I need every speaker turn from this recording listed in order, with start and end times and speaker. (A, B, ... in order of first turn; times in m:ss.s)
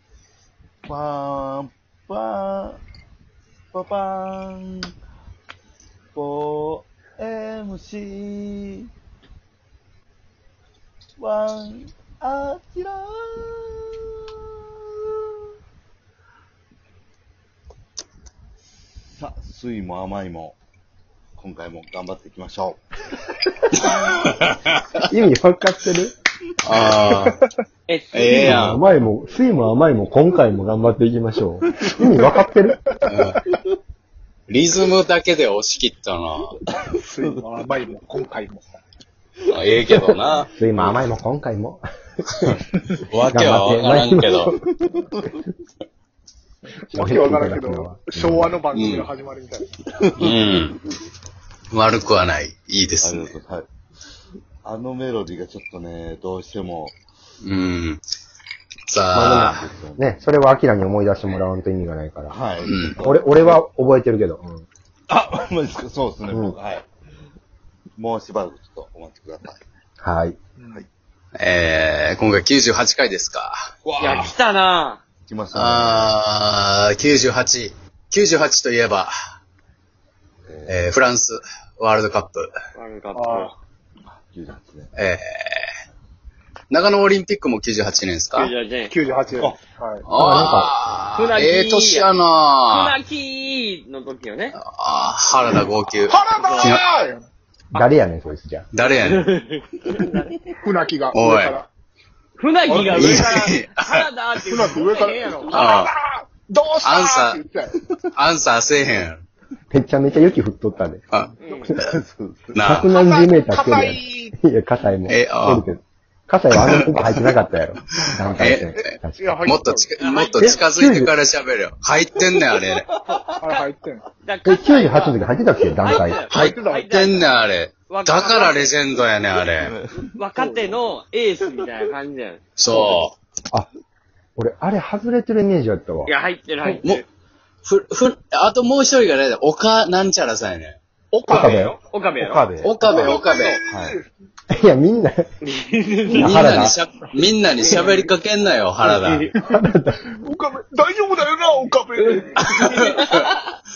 0:00.8-0:02.8 A
0:03.7-0:04.9 A
0:06.1-0:08.9 A
0:11.2-0:15.0 A
0:19.1-0:20.6 A
0:21.3-0:22.8 A
0:23.8-0:24.8 B
0:25.1-0:26.1 C
0:26.6-0:27.4 B
0:26.9-0:27.3 D
0:27.9-0:28.6 E
0:28.1-0:28.8 B
0:28.3-0:32.8 C
0:33.1-0:33.4 B
0:34.5-0:36.6 B
0:36.7-0:37.4 A
0:36.9-0:38.8 D
0:39.5-0:40.5 B
0:39.8-0:42.7 C
0:43.0-0:44.5 B
0:43.3-0:44.6 C
0:44.5-0:45.4 A
0:46.7-0:49.8 D
0:46.9-0:48.6 C
0:48.7-0:49.0 B
0:50.0-0:50.5 A
0:50.2-0:50.8 B
0:51.7-0:53.4 B
0:53.0-0:53.6 A
0:54.6-0:56.9 A
0:57.4-0:58.0 B
0:58.9-0:59.6 B
0:59.1-1:02.4 C
0:59.3-1:00.2 A
1:02.3-1:03.6 A
1:02.6-1:03.0 B
1:03.0-1:04.7 C
1:05.1-1:06.8 A
1:06.3-1:06.6 C
1:08.0-1:09.6 A
1:10.0-1:10.4 C
1:10.6-1:10.8 D
1:11.4-1:14.3 B
1:13.8-1:14.3 A
1:14.0-1:15.0 E
1:15.3-1:16.1 A
1:15.5-1:19.1 B
1:20.4-1:20.9 A
1:20.7-1:22.5 B
1:22.7-1:23.5 E
1:23.1-1:23.6 D
1:24.0-1:24.9 A
1:25.0-1:25.7 B
1:26.7-1:28.5 B
1:28.3-1:28.9 E
1:28.9-1:30.0 D
1:30.0-1:33.0 B
1:30.1-1:30.7 C
1:31.1-1:32.1 E
1:32.7-1:34.6 E
1:34.6-1:36.8 B
1:36.1-1:37.3 D
1:36.4-1:36.8 E
1:37.7-1:38.7 C
1:38.7-1:39.3 B
1:38.9-1:40.4 E
1:40.6-1:41.7 D
1:41.1-1:41.6 B
1:42.4-1:45.7 E
1:42.7-1:43.5 D
1:42.8-1:44.0 B
1:44.5-1:47.8 D
1:45.5-1:45.9 B
1:46.8-1:47.4 B
1:48.1-1:49.2 B
1:49.7-1:51.0 C
1:51.1-1:51.8 B
1:51.4-1:51.7 E
1:51.5-1:52.7 A
1:52.5-1:52.9 B
1:52.6-1:59.5 C
1:52.9-1:54.3 D
1:55.1-1:55.6 B
1:56.6-1:57.2 B
1:58.0-2:02.8 B
1:59.2-1:59.9 D
2:00.0-2:00.6 E
2:00.4-2:01.1 C
2:02.6-2:03.7 E
2:03.4-2:04.0 D
2:04.2-2:05.2 E
2:04.4-2:06.2 C
2:05.8-2:07.3 E
2:06.0-2:07.0 D
2:06.3-2:09.7 B
2:07.9-2:08.7 E
2:09.5-2:10.7 A
2:10.1-2:13.0 E
2:12.6-2:13.1 B
2:14.4-2:16.1 C
2:16.0-2:17.0 E
2:17.6-2:20.8 B
2:21.1-2:21.7 D
2:21.3-2:21.8 C
2:21.3-2:22.5 E
2:22.2-2:22.8 A
2:22.6-2:23.6 B
2:22.8-2:24.0 D
2:23.7-2:24.0 A
2:24.5-2:25.3 C
2:25.4-2:26.6 E
2:26.1-2:26.8 C
2:26.1-2:29.3 B
2:27.6-2:27.9 E
2:27.6-2:28.1 D
2:28.8-2:29.3 E
2:29.4-2:30.1 C
2:30.1-2:33.0 D
2:32.5-2:33.3 B